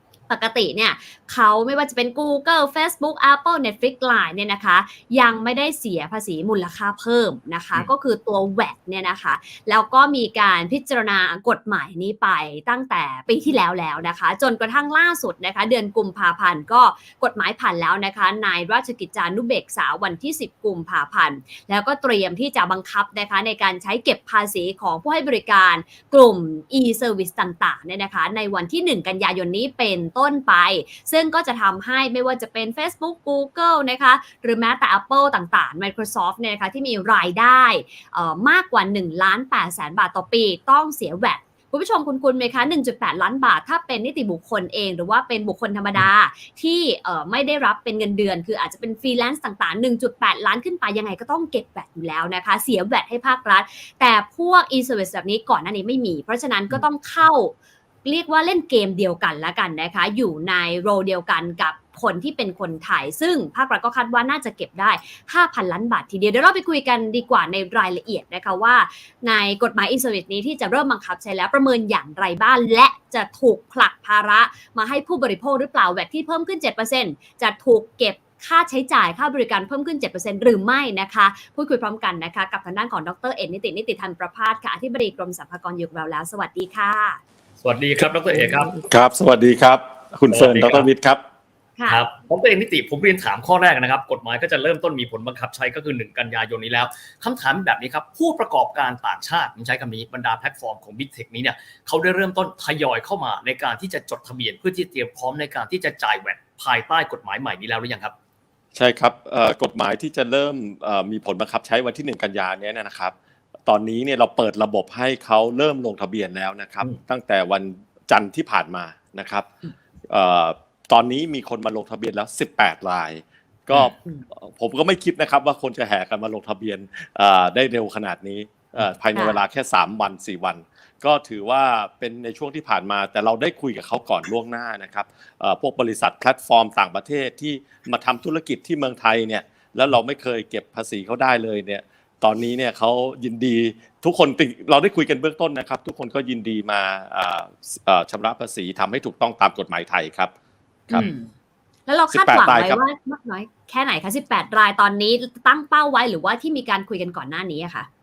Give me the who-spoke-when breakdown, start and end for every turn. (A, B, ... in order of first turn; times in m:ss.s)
0:00.3-0:57.5 A
0:58.0-1:27.2 A
1:27.6-1:28.8 B
1:28.7-1:31.2 C
1:30.3-1:30.9 B
1:31.9-1:48.2 B
1:48.8-1:53.1 C
1:53.7-1:59.5 C
2:00.1-2:30.3 C
2:09.1-2:09.4 A
2:30.9-2:31.3 A
2:31.9-2:37.9 A
2:32.1-2:32.8 C